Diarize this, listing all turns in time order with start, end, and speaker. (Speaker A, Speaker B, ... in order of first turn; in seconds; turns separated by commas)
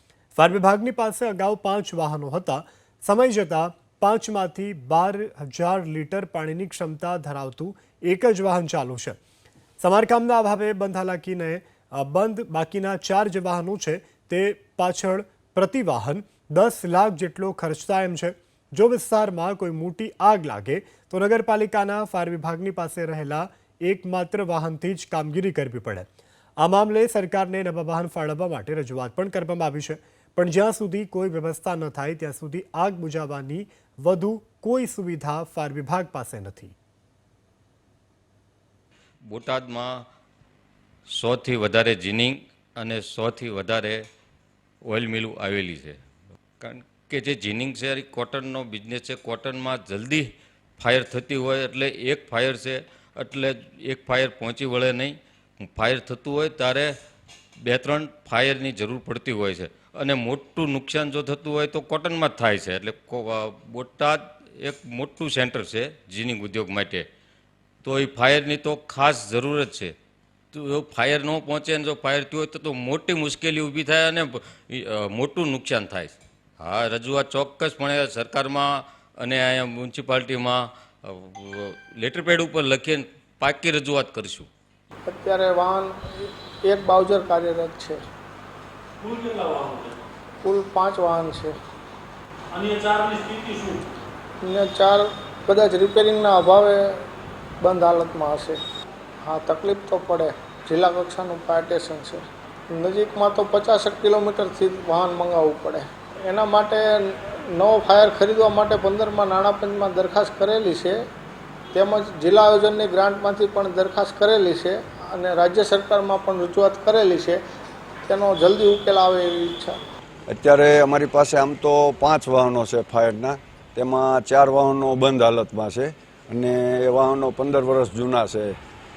Speaker A: 0.4-9.2, Speaker A: 9.8-36.8, Speaker B: 39.2-40.1, Speaker B: 41.1-44.0, Speaker B: 44.9-46.0, Speaker B: 46.6-56.9, Speaker B: 57.6-67.1, Speaker B: 67.8-70.0, Speaker B: 70.5-84.5, Speaker C: 85.1-88.0, Speaker D: 89.0-90.1, Speaker C: 90.4-91.6, Speaker D: 92.5-94.0, Speaker C: 94.4-97.0, Speaker C: 97.6-98.6, Speaker C: 99.2-111.0, Speaker C: 111.7-117.4, Speaker C: 118.1-119.8, Speaker E: 120.3-128.6